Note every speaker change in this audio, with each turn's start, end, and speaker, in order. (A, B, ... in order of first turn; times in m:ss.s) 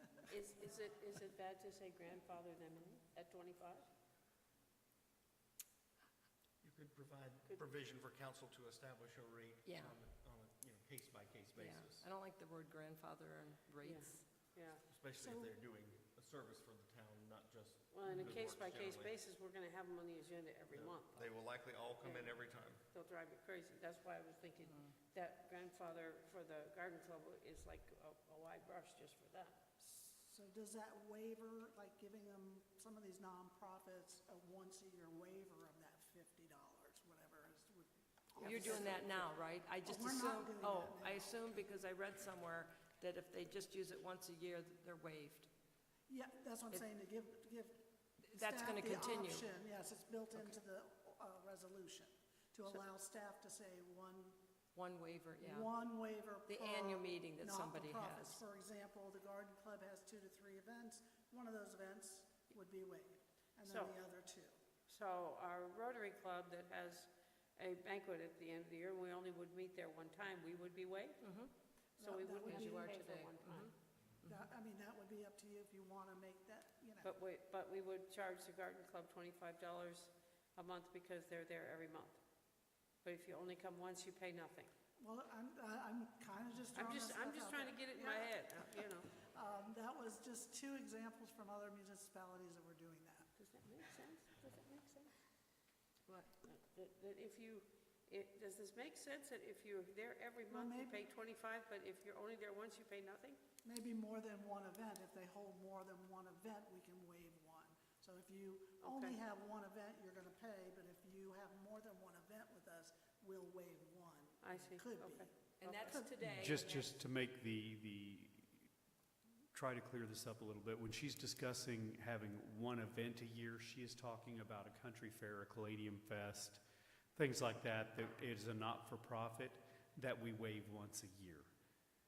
0:00.3-0:03.9 A
0:06.6-0:12.1 B
0:07.4-0:07.7 A
0:09.6-0:10.0 C
0:11.6-0:14.2 C
0:13.8-0:14.8 A
0:14.9-0:19.2 B
0:15.2-0:15.5 D
0:17.9-0:29.6 A
0:18.1-0:18.4 C
0:20.7-0:22.8 B
0:29.8-0:39.2 D
0:38.4-0:45.5 C
0:39.9-0:41.3 D
0:46.1-0:47.8 D
0:48.2-0:49.5 C
0:48.4-0:54.4 D
0:54.8-0:55.7 C
0:55.4-1:04.6 D
0:56.5-0:58.4 C
1:03.6-1:04.0 A
1:04.9-1:11.3 A
1:11.2-1:11.5 C
1:12.0-1:12.9 D
1:12.0-1:13.7 A
1:12.5-1:13.7 C
1:14.3-1:17.1 D
1:17.0-1:22.2 A
1:23.0-1:24.7 A
1:25.0-1:33.3 D
1:26.8-1:29.1 A
1:33.4-1:35.1 A
1:36.1-1:36.3 C
1:36.4-1:43.4 A
1:40.5-1:41.0 D
1:43.6-1:55.4 D
1:48.8-1:49.2 A
1:54.4-1:56.0 A
1:55.6-1:57.0 C
1:56.2-1:58.7 E
1:59.5-2:06.6 E
2:07.2-2:11.5 E